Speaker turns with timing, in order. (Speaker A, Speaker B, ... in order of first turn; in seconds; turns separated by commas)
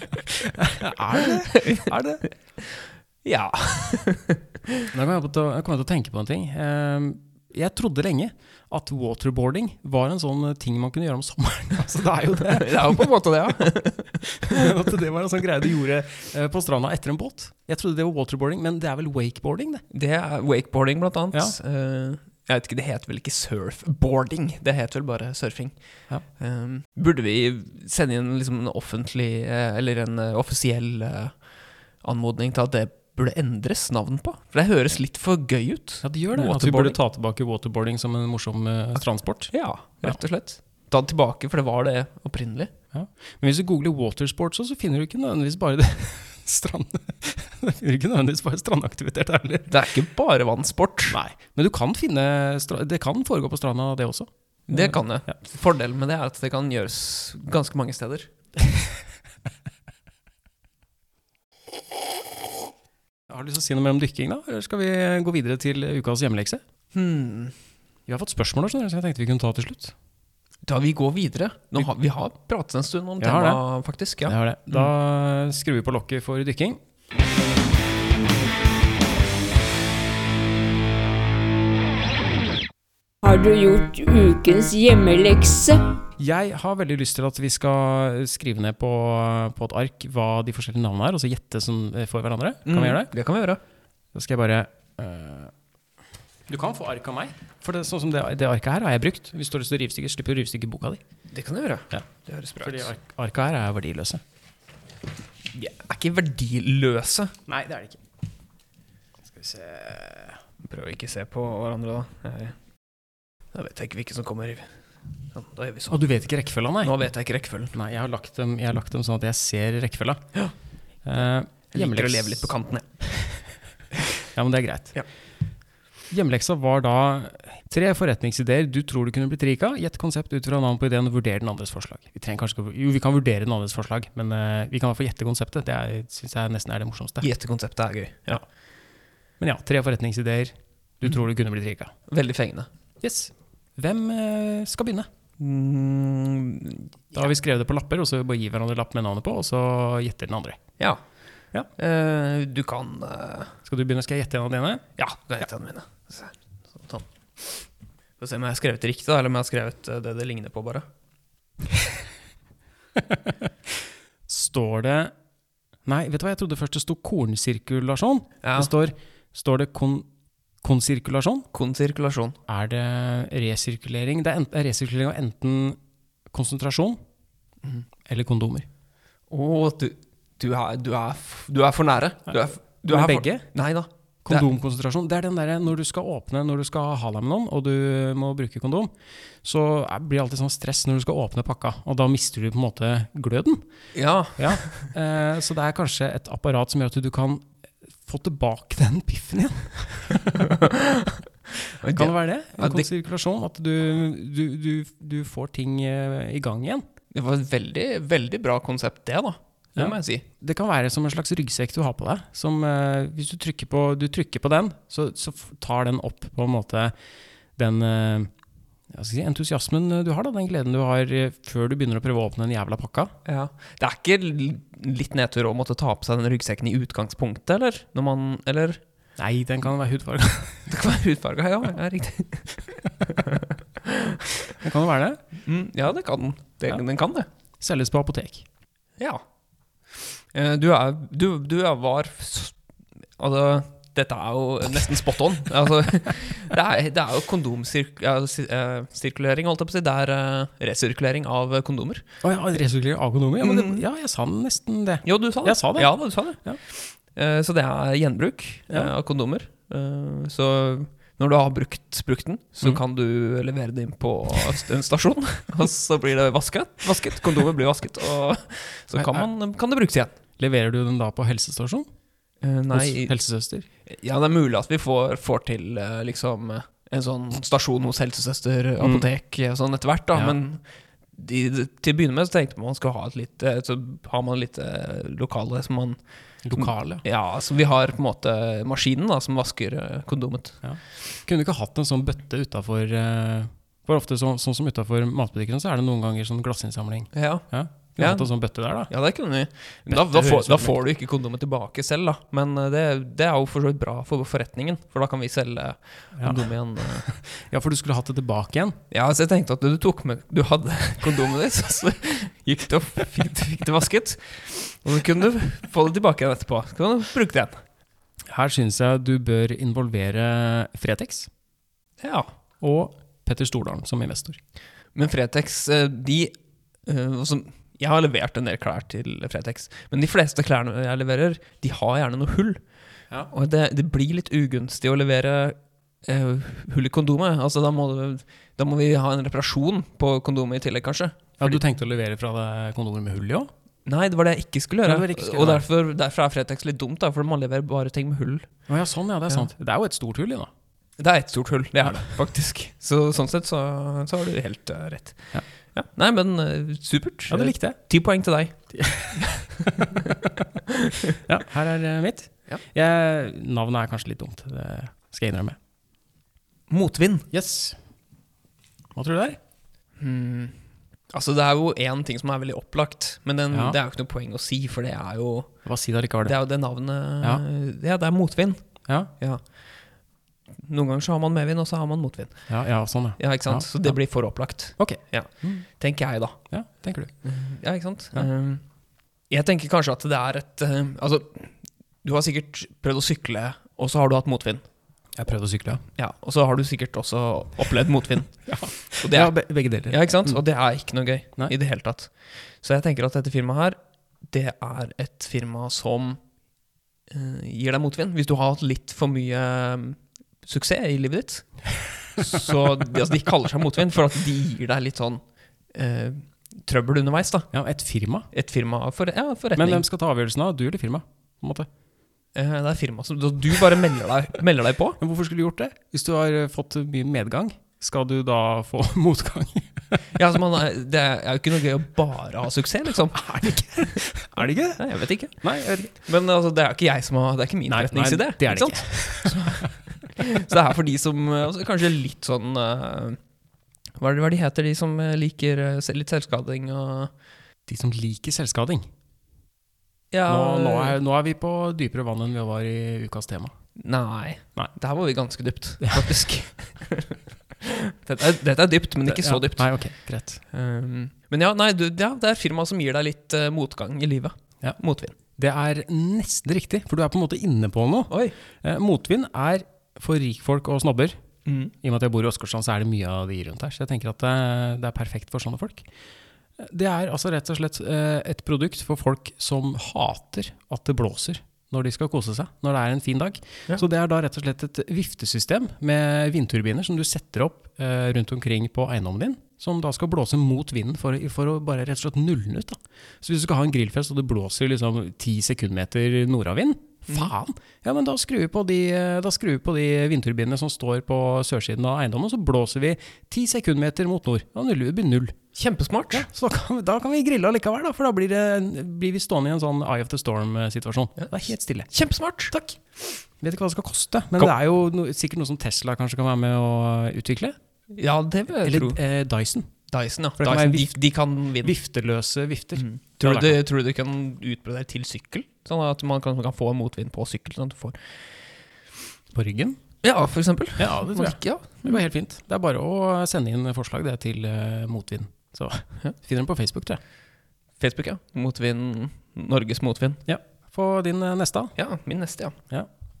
Speaker A: 0.3-2.2, Speaker B: 1.2-4.9, Speaker A: 4.9-13.1, Speaker B: 12.4-14.7, Speaker A: 14.3-19.8, Speaker B: 19.9-37.0, Speaker A: 36.0-40.2, Speaker B: 39.5-42.7, Speaker A: 42.9-49.7, Speaker B: 49.7-51.2, Speaker A: 51.1-55.0, Speaker B: 54.7-58.3, Speaker A: 63.3-66.6, Speaker B: 66.9-67.5, Speaker A: 68.1-69.9, Speaker B: 70.6-74.9, Speaker A: 73.2-73.6, Speaker A: 74.2-76.8, Speaker C: 83.2-85.9, Speaker A: 86.2-93.1, Speaker B: 92.7-93.6, Speaker A: 94.1-95.5, Speaker A: 96.5-101.0, Speaker B: 101.3-102.9, Speaker A: 102.6-104.2, Speaker B: 105.5-107.3, Speaker A: 107.5-108.0, Speaker A: 109.2-110.4, Speaker B: 110.6-112.5, Speaker B: 113.5-114.8, Speaker B: 115.3-116.0, Speaker A: 115.9-116.9, Speaker B: 116.8-117.7, Speaker A: 117.7-120.2, Speaker A: 121.0-122.5, Speaker B: 121.7-122.8, Speaker A: 123.0-123.5, Speaker A: 124.2-125.0, Speaker A: 126.1-137.3, Speaker B: 137.2-138.4, Speaker A: 139.4-141.9, Speaker B: 142.1-142.7, Speaker A: 143.0-145.1, Speaker B: 145.4-146.9, Speaker A: 147.1-150.6, Speaker B: 151.7-153.5, Speaker A: 153.7-154.8, Speaker B: 155.0-157.7, Speaker B: 158.2-160.8, Speaker A: 162.9-165.1, Speaker A: 165.8-170.1, Speaker B: 168.4-168.7, Speaker A: 170.6-171.5, Speaker B: 171.5-172.4, Speaker A: 172.5-175.8, Speaker A: 176.3-177.0, Speaker A: 178.1-178.7, Speaker B: 179.3-184.4, Speaker A: 182.3-183.4, Speaker A: 184.2-193.6, Speaker B: 193.9-194.9, Speaker A: 194.3-197.5, Speaker A: 198.0-200.5, Speaker B: 200.4-202.9, Speaker A: 201.9-206.8, Speaker B: 207.1-210.2, Speaker A: 209.8-216.9, Speaker A: 217.6-218.3, Speaker A: 218.9-223.1, Speaker B: 223.2-228.8, Speaker A: 229.2-230.7, Speaker B: 230.7-234.3, Speaker A: 234.5-235.2, Speaker B: 235.4-237.3, Speaker A: 237.6-238.4, Speaker B: 239.9-242.6, Speaker B: 243.2-252.1, Speaker A: 252.2-256.6, Speaker B: 253.4-253.8, Speaker B: 255.0-270.2, Speaker A: 268.9-269.2, Speaker A: 270.4-271.9, Speaker B: 272.4-273.1, Speaker A: 272.7-273.6, Speaker B: 273.9-290.6, Speaker A: 278.8-279.1, Speaker A: 286.4-287.0, Speaker A: 290.6-298.9, Speaker B: 297.1-298.3, Speaker B: 298.8-307.1, Speaker A: 299.9-300.8, Speaker A: 306.1-308.8, Speaker B: 308.9-317.6, Speaker A: 318.3-321.3, Speaker B: 322.0-322.3, Speaker A: 322.6-324.4, Speaker B: 324.9-332.6, Speaker B: 333.3-341.6, Speaker A: 341.4-343.5, Speaker B: 343.9-348.5, Speaker A: 344.8-345.6, Speaker A: 348.7-350.5, Speaker B: 351.0-360.0, Speaker A: 357.3-357.8, Speaker A: 358.7-360.0, Speaker B: 360.9-361.1, Speaker A: 361.1-365.6, Speaker B: 366.7-367.3, Speaker A: 367.3-367.8, Speaker A: 368.9-369.4, Speaker B: 370.0-375.6, Speaker A: 373.5-373.8, Speaker A: 375.6-376.4, Speaker B: 376.2-378.7, Speaker B: 379.2-379.9, Speaker B: 380.6-382.5, Speaker A: 382.5-385.6, Speaker B: 383.2-386.4, Speaker A: 386.5-387.1, Speaker B: 387.2-388.6, Speaker B: 389.3-394.6, Speaker A: 395.1-395.8, Speaker B: 395.9-399.3, Speaker A: 398.4-400.4, Speaker B: 399.9-406.2, Speaker B: 407.1-417.5, Speaker A: 417.5-418.3, Speaker B: 418.3-419.8, Speaker A: 419.5-421.7, Speaker B: 422.3-425.0, Speaker A: 425.0-430.0, Speaker B: 430.1-434.0, Speaker A: 433.1-435.9, Speaker B: 434.8-443.2, Speaker A: 437.7-439.7, Speaker B: 444.0-447.1, Speaker A: 447.7-448.9, Speaker B: 450.1-451.0, Speaker A: 450.3-453.5, Speaker B: 453.8-459.7, Speaker A: 459.0-460.4, Speaker B: 460.5-465.1, Speaker A: 465.3-471.2, Speaker B: 468.1-468.4, Speaker B: 471.4-471.7, Speaker A: 471.7-475.9, Speaker A: 476.6-505.4, Speaker B: 505.5-506.2, Speaker A: 506.1-511.9, Speaker B: 511.9-512.5, Speaker A: 512.5-517.6, Speaker B: 517.9-519.0, Speaker A: 518.6-519.7, Speaker B: 519.9-521.7, Speaker A: 520.4-521.0, Speaker A: 521.6-523.6, Speaker B: 522.8-528.3, Speaker A: 529.3-529.8, Speaker B: 530.0-532.0, Speaker A: 530.8-537.0, Speaker B: 537.8-540.2, Speaker A: 540.2-541.7, Speaker B: 541.8-542.5